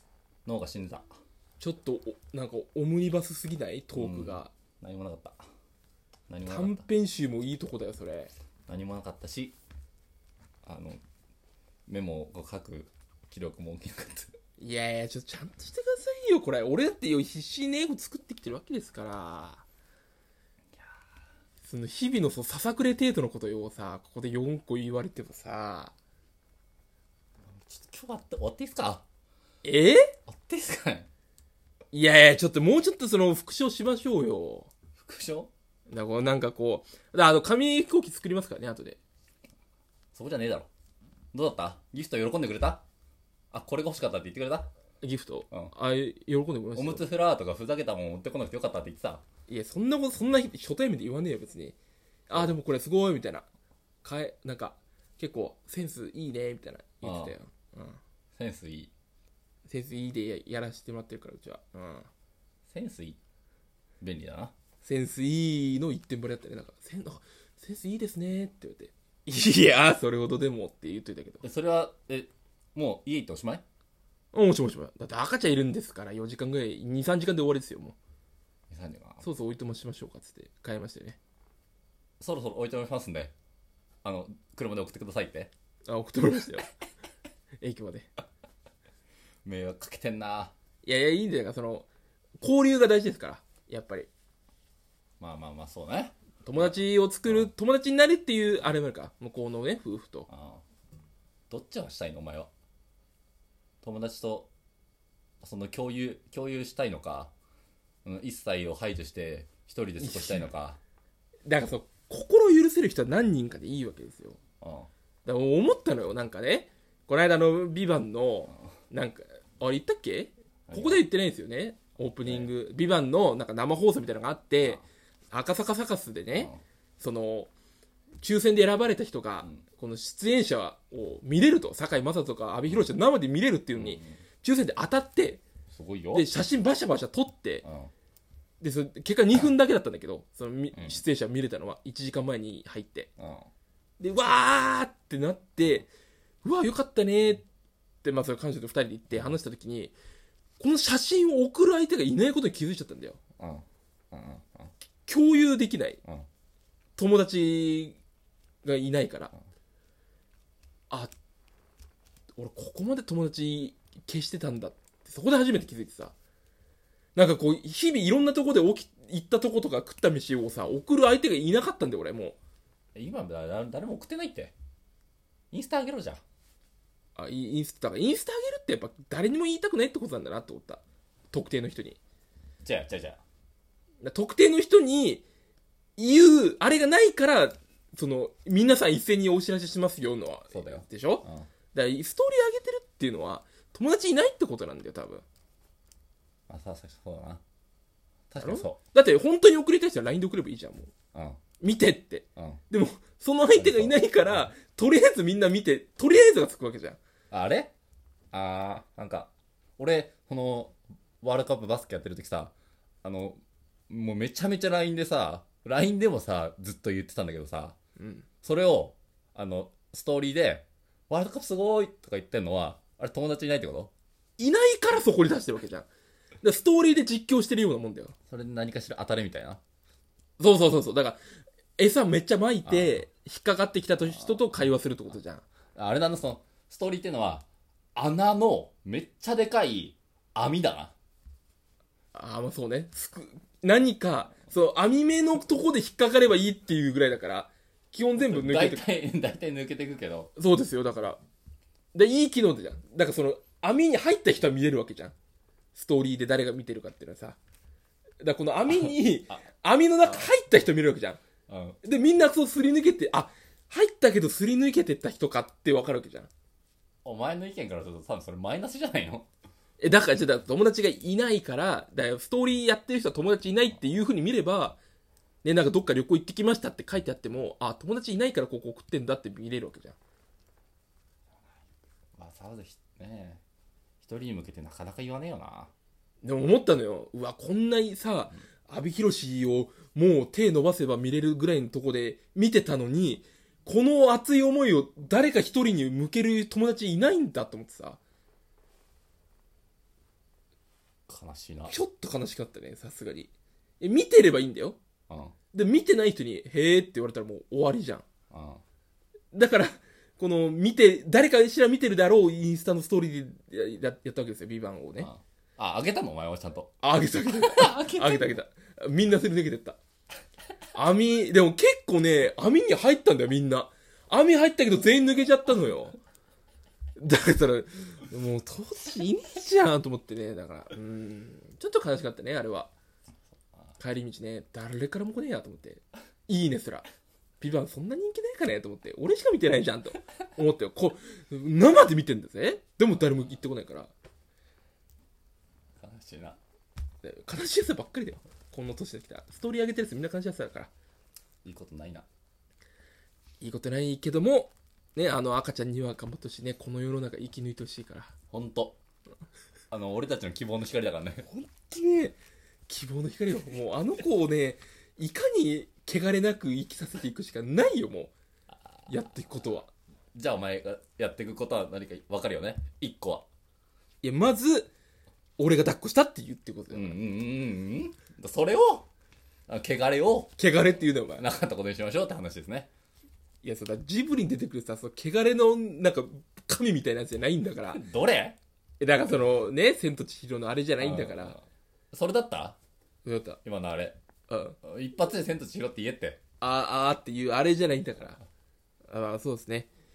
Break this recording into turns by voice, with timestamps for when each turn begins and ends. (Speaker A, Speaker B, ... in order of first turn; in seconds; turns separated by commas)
Speaker A: 0.5-1.1, Speaker B: 1.6-4.5, Speaker A: 4.0-5.4, Speaker A: 6.3-6.8, Speaker B: 6.5-8.3, Speaker A: 8.7-9.6, Speaker A: 10.6-11.0, Speaker A: 11.9-14.3, Speaker B: 14.6-19.6, Speaker B: 21.6-25.9, Speaker A: 27.5-29.0, Speaker B: 29.6-30.1, Speaker A: 30.3-31.1, Speaker B: 31.9-34.7, Speaker A: 35.0-35.5, Speaker B: 35.9-39.0, Speaker A: 40.1-40.7, Speaker A: 41.3-42.8, Speaker A: 43.5-44.7, Speaker B: 45.0-47.1, Speaker A: 46.8-49.2, Speaker B: 49.5-51.8, Speaker B: 52.3-53.5, Speaker B: 54.0-58.0, Speaker A: 57.0-57.4, Speaker A: 58.4-58.9, Speaker B: 59.7-62.1, Speaker A: 62.7-63.2, Speaker A: 64.0-64.5, Speaker B: 64.8-71.4, Speaker A: 71.4-73.6, Speaker B: 74.3-78.0, Speaker A: 78.7-79.2, Speaker B: 79.2-81.2, Speaker A: 82.2-83.3, Speaker A: 84.0-85.5, Speaker B: 85.9-86.7, Speaker B: 87.6-88.1, Speaker A: 89.5-90.5, Speaker B: 90.8-91.9, Speaker B: 92.4-94.1, Speaker A: 95.2-97.5, Speaker B: 96.5-100.3, Speaker A: 100.3-100.6, Speaker A: 101.5-102.5, Speaker A: 103.8-104.5, Speaker A: 105.4-107.3, Speaker A: 108.0-110.8, Speaker B: 110.0-110.5, Speaker B: 111.5-114.4, Speaker A: 114.6-114.9, Speaker B: 115.3-127.5, Speaker A: 120.7-121.0, Speaker A: 122.2-122.5, Speaker A: 126.3-126.6, Speaker B: 128.2-135.4, Speaker A: 133.7-134.2, Speaker A: 135.7-136.3, Speaker B: 136.1-137.6, Speaker A: 137.6-137.9, Speaker B: 138.6-143.1, Speaker A: 140.7-141.0, Speaker A: 143.2-143.5, Speaker B: 144.0-145.9, Speaker B: 146.4-147.4, Speaker B: 148.0-149.9, Speaker B: 150.6-153.2, Speaker A: 153.4-154.7, Speaker B: 155.1-156.0, Speaker B: 157.0-158.0, Speaker B: 158.6-159.3, Speaker B: 162.4-166.1, Speaker B: 167.2-172.4, Speaker A: 172.9-174.5, Speaker A: 175.5-176.2, Speaker B: 177.2-182.0, Speaker A: 182.6-183.2, Speaker B: 184.0-185.2, Speaker B: 186.0-195.2, Speaker A: 190.5-191.5, Speaker A: 196.5-197.4, Speaker A: 198.3-198.8, Speaker B: 198.4-200.9, Speaker A: 201.1-201.4, Speaker B: 201.6-207.0, Speaker A: 203.6-204.3, Speaker A: 207.3-207.7, Speaker A: 208.3-217.8, Speaker B: 218.0-218.2, Speaker A: 218.4-223.9, Speaker B: 224.4-225.9, Speaker B: 226.4-228.1, Speaker A: 228.3-229.6, Speaker B: 230.4-231.2, Speaker B: 231.8-235.4, Speaker A: 232.7-233.0, Speaker A: 234.0-234.4, Speaker A: 235.8-240.9, Speaker B: 242.1-248.9, Speaker A: 248.2-250.3, Speaker B: 250.4-251.2, Speaker B: 251.9-255.1, Speaker B: 255.7-257.4, Speaker B: 258.2-261.2, Speaker A: 261.5-261.8, Speaker B: 261.8-266.3, Speaker A: 267.1-269.3, Speaker B: 269.8-274.8, Speaker B: 275.4-280.0, Speaker A: 282.2-283.4, Speaker A: 284.0-285.7, Speaker B: 286.2-298.0, Speaker A: 301.1-301.8, Speaker B: 301.7-304.8, Speaker A: 305.1-305.4, Speaker B: 305.5-308.1, Speaker A: 308.3-308.6, Speaker B: 309.3-315.1, Speaker A: 315.0-316.7, Speaker B: 316.8-319.8, Speaker A: 317.3-318.3, Speaker B: 320.7-326.0, Speaker B: 327.0-332.7, Speaker B: 333.8-336.9, Speaker B: 337.4-343.9, Speaker A: 345.8-346.4, Speaker B: 347.0-350.7, Speaker A: 351.4-352.1, Speaker B: 353.4-358.1, Speaker A: 358.3-358.8, Speaker A: 359.7-361.3, Speaker B: 361.2-362.2, Speaker B: 362.7-368.1, Speaker B: 368.9-369.7, Speaker A: 370.1-373.2, Speaker B: 374.0-374.7, Speaker B: 375.4-377.0, Speaker A: 376.7-378.9, Speaker A: 379.5-380.4, Speaker B: 380.4-381.2, Speaker A: 381.1-382.7, Speaker B: 383.4-387.8, Speaker A: 387.6-388.4, Speaker B: 388.8-391.4, Speaker A: 390.8-392.6, Speaker B: 393.1-393.4, Speaker A: 393.4-394.0, Speaker B: 394.3-394.6, Speaker A: 394.6-396.2, Speaker B: 396.4-398.2, Speaker B: 398.9-399.7